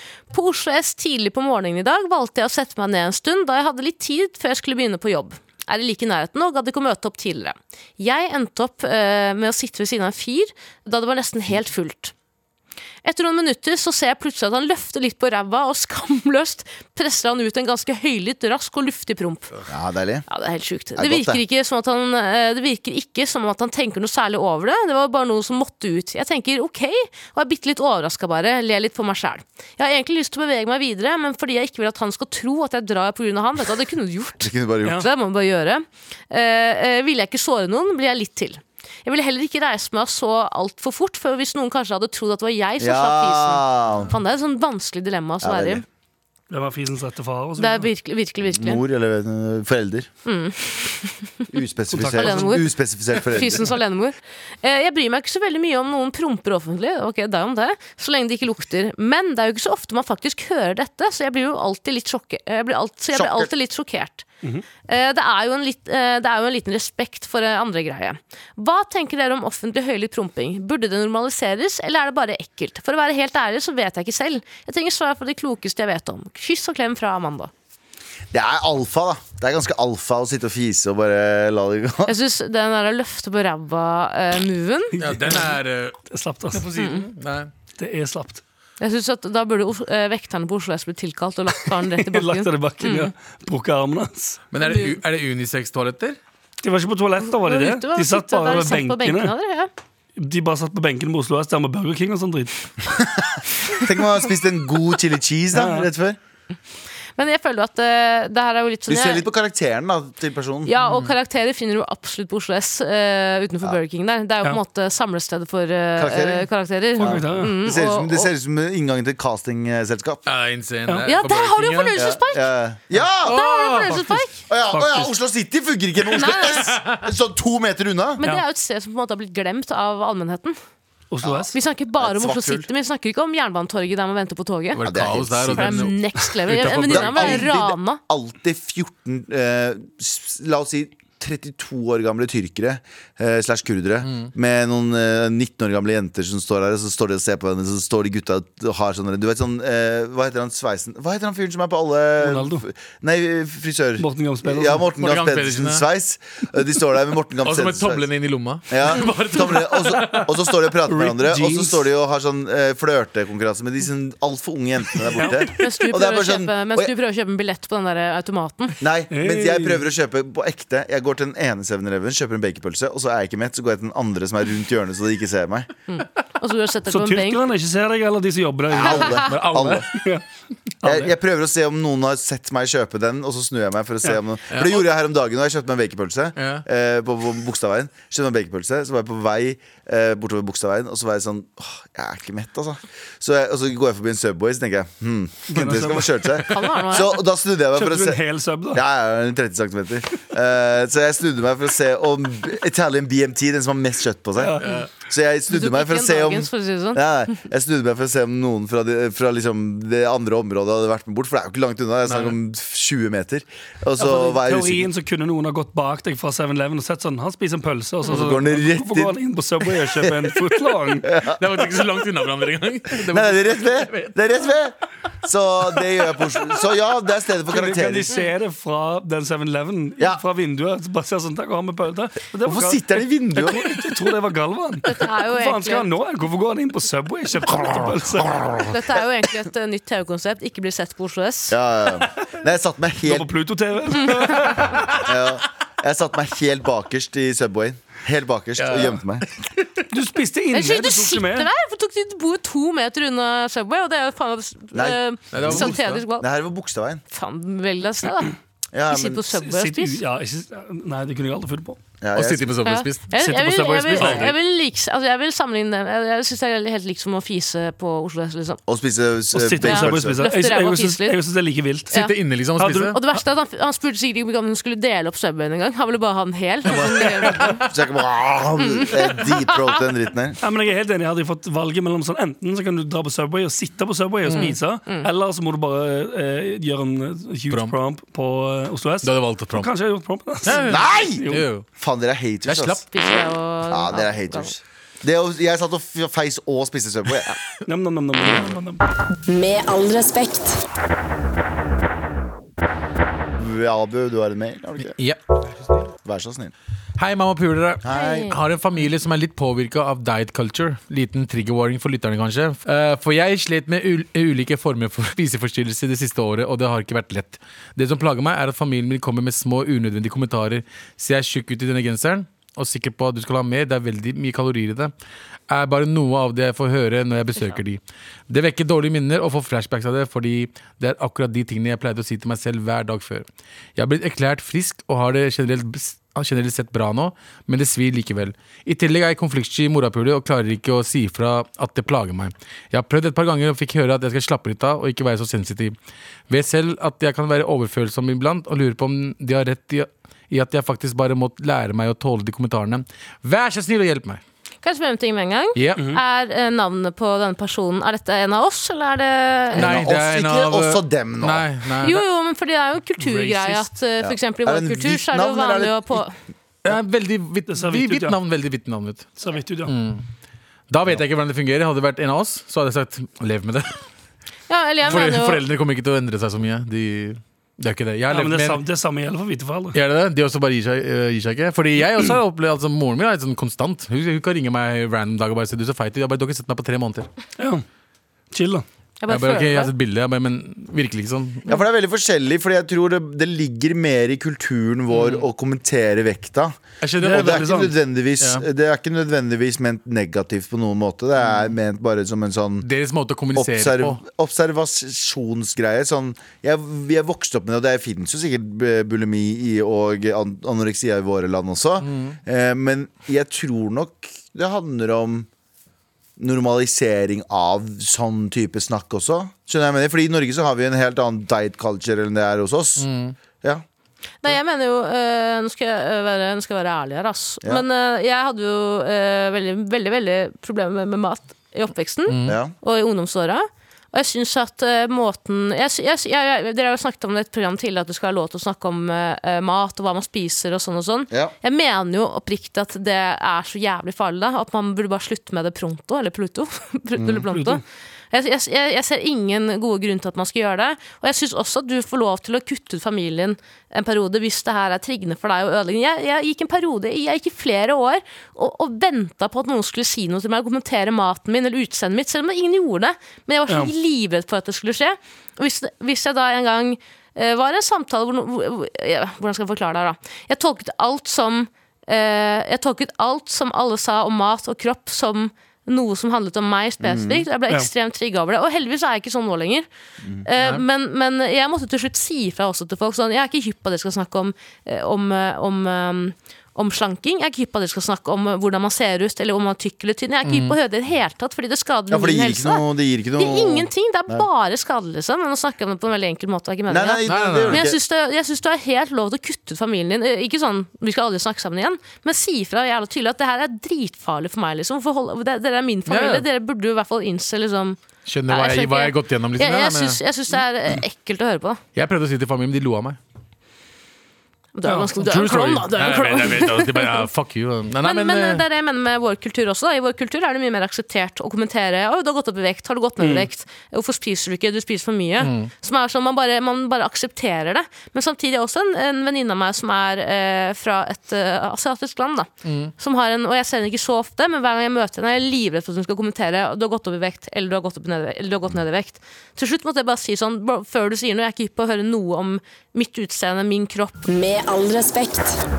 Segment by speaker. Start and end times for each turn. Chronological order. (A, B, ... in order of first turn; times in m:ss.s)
0:00.3-0:12.1 A
0:13.0-0:19.6 A
0:19.7-0:20.2 B
0:20.3-0:45.8 A
0:21.0-0:21.4 B
0:34.4-0:35.0 B
0:42.8-0:44.1 B
0:45.4-0:45.8 B
0:46.5-0:47.9 C
0:47.6-0:48.8 A
0:48.5-0:50.1 B
0:50.2-0:51.5 A
0:51.5-0:53.7 B
0:51.9-0:52.6 C
0:52.1-1:04.2 A
1:03.1-1:03.5 B
1:04.9-1:17.5 A
1:18.3-1:22.1 B
1:22.0-1:25.0 A
1:25.0-1:25.5 C
1:25.0-1:27.5 D
1:26.1-1:26.6 C
1:26.8-1:27.0 A
1:27.8-1:28.4 C
1:28.8-1:33.1 A
1:31.9-1:34.8 C
1:34.5-1:36.2 D
1:36.6-1:39.3 C
1:37.2-1:39.7 A
1:40.2-1:42.7 C
1:43.0-1:46.2 B
1:45.5-1:45.9 C
1:47.2-1:49.2 A
1:48.9-1:50.7 B
1:50.6-1:58.3 A
1:56.0-2:00.2 B
1:57.0-1:57.5 C
2:00.2-2:02.0 D
2:01.0-2:02.5 A
2:01.9-2:03.4 B
2:03.2-2:04.2 D
2:03.2-2:04.4 A
2:04.5-2:08.2 B
2:04.7-2:05.1 C
2:06.1-2:06.7 A
2:06.6-2:07.0 D
2:08.2-2:10.6 A
2:11.1-2:11.5 C
2:11.2-2:12.7 B
2:11.5-2:14.9 A
2:14.7-2:17.5 D
2:14.8-2:15.9 B
2:15.5-2:18.0 A
2:16.8-2:38.1 B
2:24.0-2:24.3 D
2:32.2-2:32.6 C
2:34.0-2:34.9 C
2:35.0-2:35.8 D
2:37.4-2:40.7 D
2:38.7-2:46.9 B
2:40.9-2:41.8 C
2:45.1-2:45.5 C
2:45.5-2:48.8 A
2:48.8-2:55.7 B
2:49.1-2:49.8 C
2:55.9-2:57.4 A
2:56.9-3:00.2 C
2:58.7-2:59.9 B
2:58.8-2:59.3 A
2:59.4-2:59.8 D
3:00.8-3:01.1 C
3:00.8-3:34.9 B
3:04.5-3:04.8 D
3:06.4-3:06.6 D
3:15.5-3:16.4 C
3:16.5-3:17.2 A
3:17.7-3:18.8 C
3:24.4-3:24.8 C
3:24.6-3:24.9 D
3:25.5-3:27.3 A
3:32.1-3:32.3 D
3:34.0-3:41.1 C
3:38.1-3:40.4 B
3:41.0-3:41.6 B
3:41.3-3:44.2 D
3:43.0-3:48.1 B
3:47.5-3:58.6 C
3:52.4-3:53.8 B
3:54.8-3:55.9 A
3:57.5-3:58.7 B
3:58.6-4:01.6 A
4:01.5-4:03.3 B
4:03.0-4:04.7 C
4:04.0-4:04.5 A
4:04.5-4:05.0 D
4:04.9-4:09.3 B
4:08.6-4:09.0 D
4:09.9-4:11.5 C
4:10.5-4:16.2 A
4:14.7-4:17.0 B
4:15.3-4:16.0 D
4:17.1-4:18.3 A
4:18.7-4:19.3 B
4:18.9-4:20.0 A
4:19.3-4:21.8 C
4:22.0-4:22.6 B
4:22.1-4:23.1 D
4:22.6-4:28.6 A
4:23.1-4:24.3 C
4:23.9-4:24.3 D
4:28.7-4:30.3 B
4:29.3-4:31.9 C
4:29.6-4:31.2 A
4:31.9-4:33.0 D
4:32.6-4:32.9 C
4:32.9-4:37.7 A
4:37.6-4:40.4 B
4:38.6-4:39.6 A
4:40.4-4:51.4 C
4:44.2-4:44.5 D
4:44.3-4:45.1 A
4:47.5-4:47.8 D
4:49.0-4:49.7 D
4:50.4-4:51.6 D
4:50.6-4:52.8 B
4:52.4-4:52.8 D
4:52.9-4:54.5 A
4:53.7-4:57.3 B
4:57.7-4:58.8 C
4:59.2-5:00.6 E
5:03.4-5:05.0 B
5:06.0-5:06.5 B
5:07.0-5:24.9 D
5:07.8-5:08.3 B
5:07.9-5:08.4 A
5:25.5-5:33.2 D
5:33.8-5:45.7 D
5:46.3-5:54.2 D
5:54.6-5:59.8 A
5:55.5-5:55.9 D
5:59.5-6:01.4 B
5:59.5-6:02.0 D
6:01.8-6:06.1 A
6:03.0-6:03.7 C
6:04.0-6:06.0 B
6:06.6-6:09.1 D
6:07.5-6:08.2 C
6:09.2-6:09.7 C
6:09.6-6:10.0 D
6:10.7-6:13.8 D
6:14.5-6:15.4 A
6:14.8-6:18.6 D
6:18.1-6:19.8 C
6:19.7-6:27.1 D
6:27.4-6:27.6 C
6:28.3-6:28.6 C
6:29.0-6:29.7 A
6:29.1-6:31.5 D
6:31.4-6:42.7 B
6:34.9-6:35.2 D
6:36.8-6:37.7 D
6:37.0-6:37.7 C
6:41.2-6:41.5 D
6:42.6-6:44.0 D
6:43.3-6:55.3 B
6:51.8-6:52.2 D
6:56.2-7:02.9 B
7:02.8-7:03.1 D
7:04.2-7:27.6 A
7:12.1-7:12.4 D
7:12.2-7:12.5 B
7:27.0-7:27.2 B
7:27.3-7:27.6 C
7:28.1-7:59.7 A
7:56.8-7:57.2 B
8:00.2-8:12.6 A
8:10.2-8:10.6 D
8:11.9-8:14.2 B
8:13.2-8:31.6 A
8:16.7-8:17.8 B
8:17.0-8:17.6 D
8:25.9-8:26.2 D
8:28.0-8:30.0 D
8:31.7-8:33.0 D
8:34.5-8:37.1 A
8:35.0-8:38.4 D
8:37.8-9:04.1 A
8:43.0-8:43.3 C
8:45.2-8:45.5 D
8:52.4-8:52.7 D
9:04.0-9:05.4 E